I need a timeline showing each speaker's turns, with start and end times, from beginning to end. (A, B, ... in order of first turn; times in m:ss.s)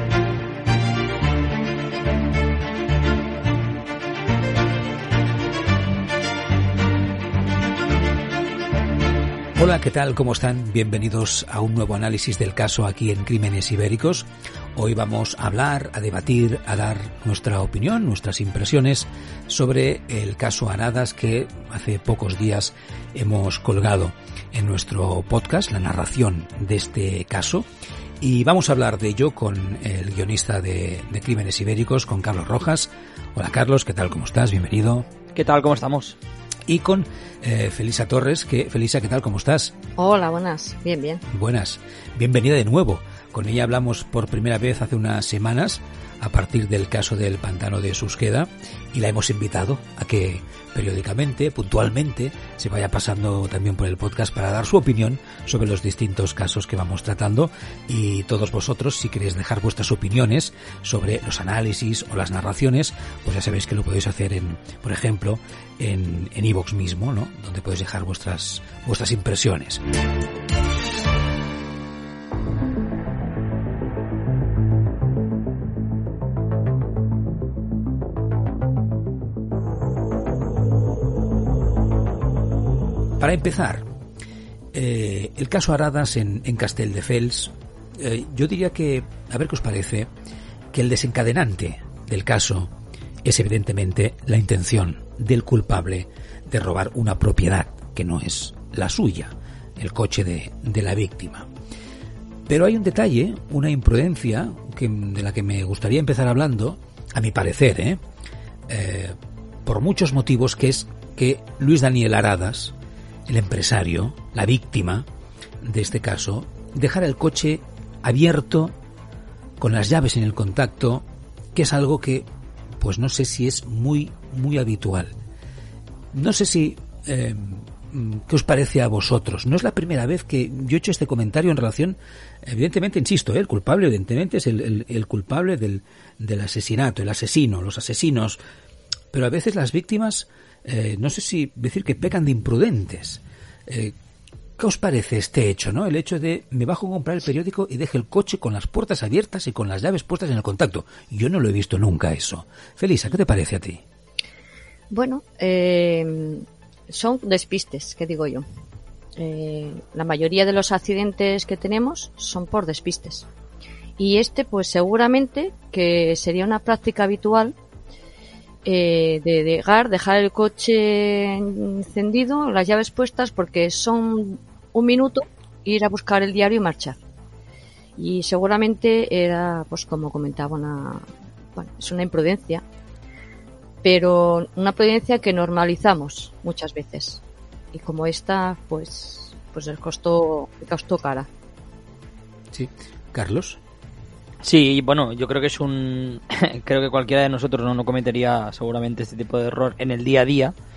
0:09.6-0:27.7 A
0:28.2-0:35.1 A
0:35.3-0:36.2 B
0:36.7-0:39.7 A
0:40.0-0:41.2 C
0:41.3-1:09.8 A
1:23.2-1:23.8 A
1:24.7-1:30.1 A
1:30.7-1:32.7 A
1:33.2-1:41.5 A
1:42.5-1:48.0 A
1:48.7-1:52.8 A
1:53.3-1:55.1 A
1:55.6-1:58.7 A
1:59.6-2:02.3 A
2:02.8-2:05.1 A
2:06.1-2:18.4 A
2:19.1-2:23.9 A
2:24.6-2:33.8 A
2:34.9-2:38.4 C
2:39.2-2:43.3 C
2:44.0-2:47.6 C
2:48.6-2:57.0 C
2:58.0-3:02.6 C
3:03.8-3:07.2 C
3:07.7-3:11.3 C
3:12.5-3:13.6 A
3:14.4-3:20.5 B